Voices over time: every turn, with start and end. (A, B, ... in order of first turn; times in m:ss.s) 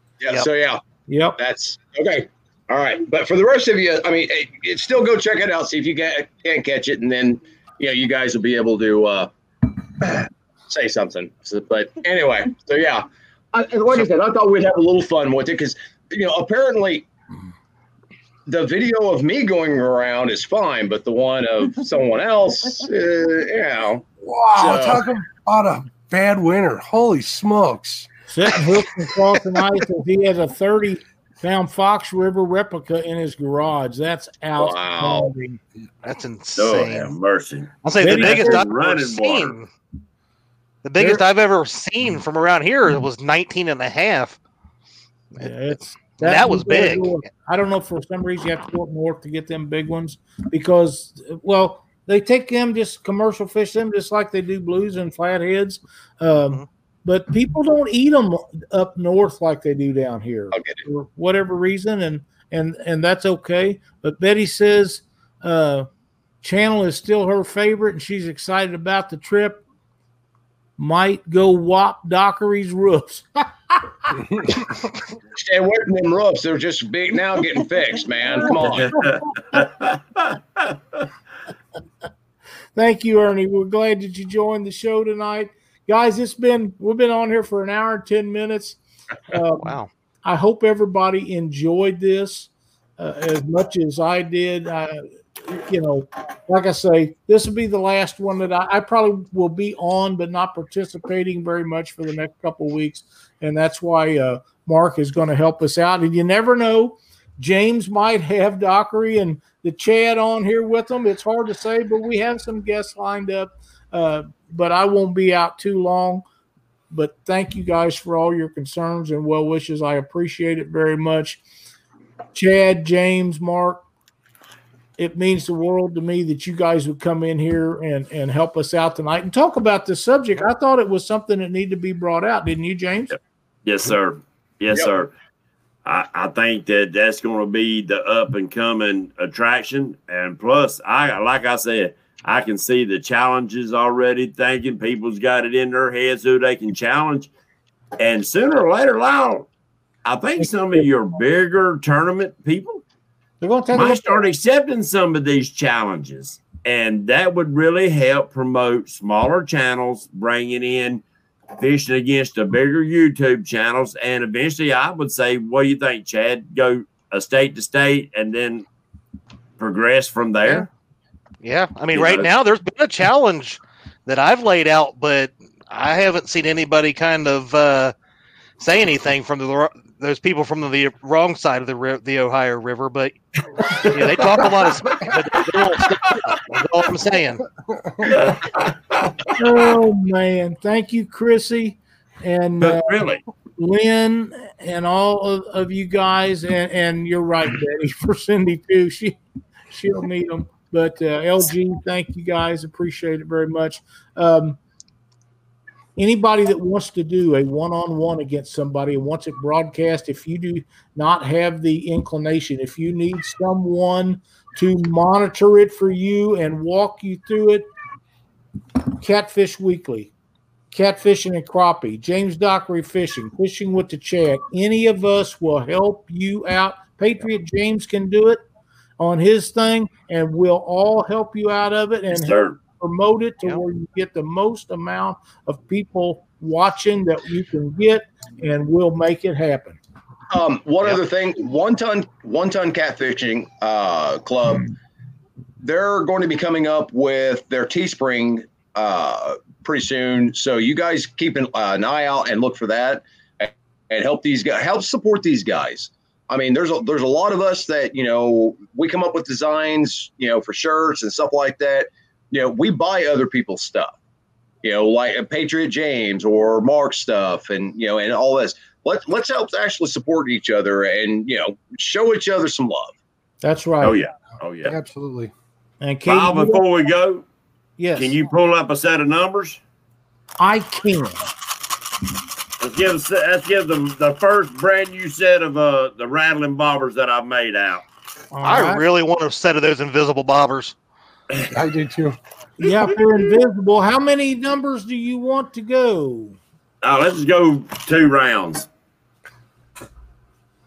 0:00.2-0:00.8 A
0:01.1-0:01.4 B
0:01.4-0:09.3 A
0:10.0-0:17.1 A
0:18.4-0:25.0 A
0:24.2-0:28.1 C
0:28.3-0:35.6 B
0:34.6-0:35.3 A
0:36.0-0:37.1 D
0:36.6-0:39.6 E
0:37.8-0:39.7 D
0:38.0-0:38.7 B
0:40.8-0:44.4 D
0:41.0-0:41.2 B
0:45.4-0:47.1 D
0:45.4-1:05.9 B
1:00.5-1:00.8 A
1:06.4-1:09.6 B
1:10.8-1:14.0 B
1:15.3-1:19.0 A
1:18.6-1:20.8 E
1:22.7-1:56.2 B
1:29.6-1:29.9 D
1:56.9-2:01.4 B
2:02.3-2:03.8 B
2:05.0-2:13.2 B
2:13.6-2:15.1 E
2:15.8-2:27.3 E
2:28.0-2:29.5 E
2:30.0-2:32.8 E
2:33.4-2:34.2 B
2:33.7-2:41.0 E
2:41.6-2:48.6 E
2:49.6-2:50.7 E
2:51.4-2:57.9 D
2:51.9-2:52.3 E
2:58.6-3:07.4 D
3:07.6-3:08.1 C
3:08.0-3:09.3 E
3:09.3-3:13.0 B
3:12.6-3:13.2 E
3:13.6-3:19.2 B
3:19.7-3:24.6 B
3:26.0-3:37.6 B
3:39.0-3:40.1 B
3:40.7-3:48.4 B
3:49.0-3:59.8 B
3:52.1-3:52.6 E
4:00.3-4:04.7 A
4:05.6-4:24.0 A
4:24.6-4:32.9 A
4:33.4-4:34.0 B
4:33.8-4:34.7 E
4:34.6-4:35.3 C
4:35.8-4:36.6 B
4:36.1-4:37.2 E
4:37.8-4:38.1 B
4:38.0-4:39.6 E
4:40.4-4:41.2 B
4:42.6-4:47.8 E
4:48.3-4:48.8 B
4:48.4-4:50.7 D
4:51.5-4:52.2 C
4:52.6-4:56.4 B
4:56.8-4:58.7 E